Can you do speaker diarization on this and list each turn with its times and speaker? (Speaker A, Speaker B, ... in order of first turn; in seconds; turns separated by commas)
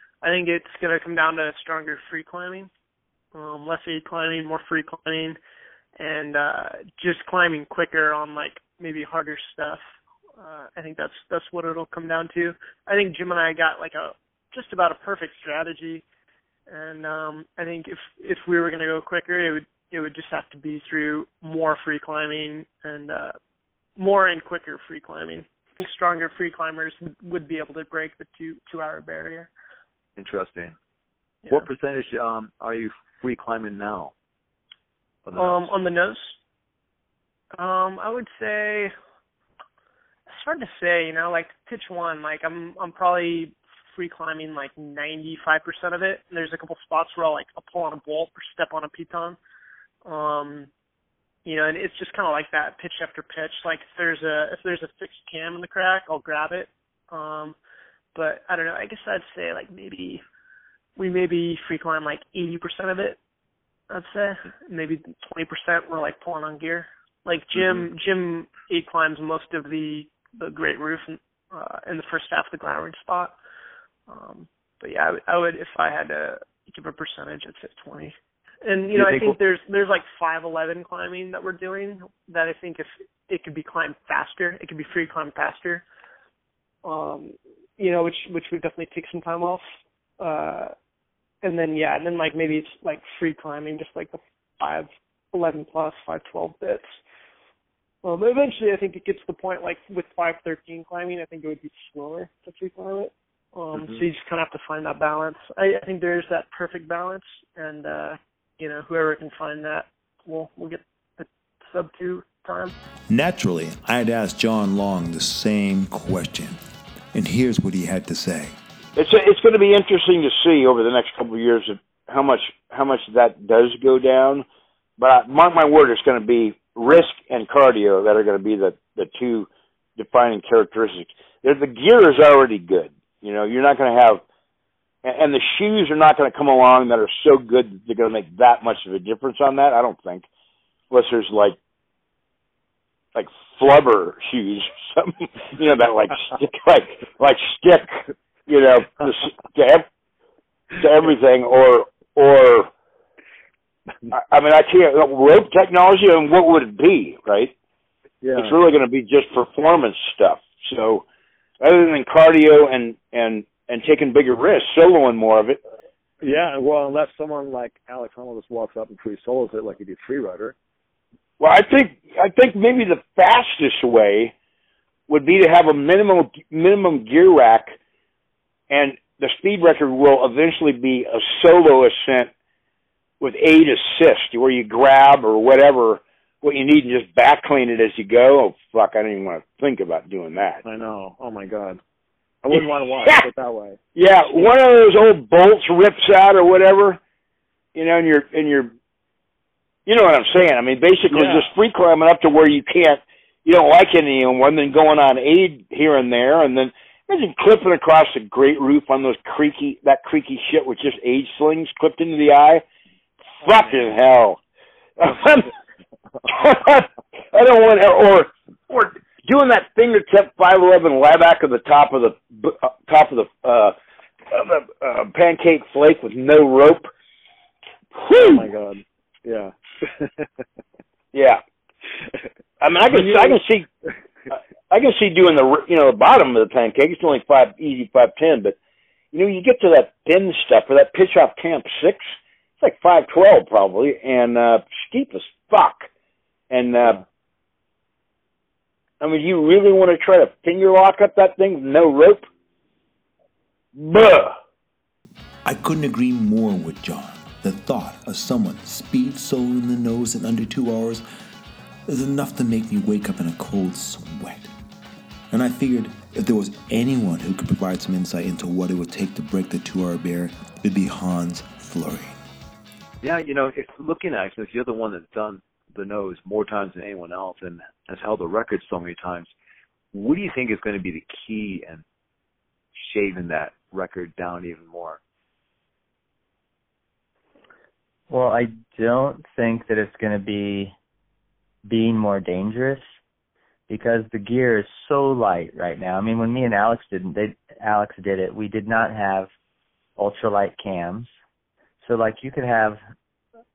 Speaker A: 0.2-2.7, Speaker A: 3.3-5.4, Speaker A: 6.0-9.8, Speaker A: 10.4-16.0, Speaker A: 16.7-23.4, Speaker A: 24.0-29.5, Speaker B: 30.1-30.8, Speaker B: 31.5-34.1, Speaker B: 35.2-35.7, Speaker A: 35.4-36.4, Speaker A: 37.5-38.9, Speaker A: 40.3-49.4, Speaker A: 50.0-50.7, Speaker A: 51.4-57.5, Speaker A: 58.1-60.2, Speaker A: 61.0-63.2, Speaker A: 63.9-73.3, Speaker B: 67.6-67.8, Speaker A: 74.1-85.8, Speaker B: 78.9-79.4, Speaker A: 86.8-89.6, Speaker A: 90.2-90.7, Speaker A: 91.4-96.8, Speaker A: 98.0-112.7, Speaker B: 103.7-104.0, Speaker C: 113.1-116.6, Speaker C: 117.1-118.6, Speaker D: 118.9-124.4, Speaker D: 125.0-134.2, Speaker D: 135.0-140.2, Speaker D: 140.9-141.6, Speaker D: 143.1-149.8, Speaker D: 150.7-152.7, Speaker D: 154.1-157.5, Speaker E: 158.2-158.6, Speaker D: 158.3-161.0, Speaker D: 161.6-165.6, Speaker E: 166.2-170.6, Speaker D: 171.4-174.3, Speaker D: 175.1-177.8, Speaker D: 178.7-182.3, Speaker D: 183.2-190.6, Speaker E: 190.6-191.8, Speaker E: 192.4-194.5, Speaker D: 192.5-193.2, Speaker D: 193.9-197.0, Speaker D: 197.7-198.7, Speaker D: 199.8-212.6, Speaker E: 201.1-201.5, Speaker D: 213.4-214.4, Speaker D: 215.0-215.5, Speaker D: 216.2-223.7, Speaker D: 224.3-226.9, Speaker D: 227.9-228.5, Speaker E: 228.1-230.2, Speaker D: 231.1-231.4, Speaker D: 232.6-233.7, Speaker E: 232.9-233.4, Speaker D: 234.3-238.6, Speaker D: 239.1-245.9, Speaker D: 246.5-247.0, Speaker D: 249.0-252.2, Speaker D: 253.7-254.4, Speaker C: 255.4-261.0, Speaker C: 261.9-264.5, Speaker C: 265.3-272.2, Speaker B: 273.0-279.3, Speaker B: 279.9-281.8, Speaker B: 282.8-285.0, Speaker F: 288.1-290.7, Speaker F: 291.6-292.9, Speaker F: 293.7-299.3, Speaker F: 300.0-301.1, Speaker F: 301.8-302.8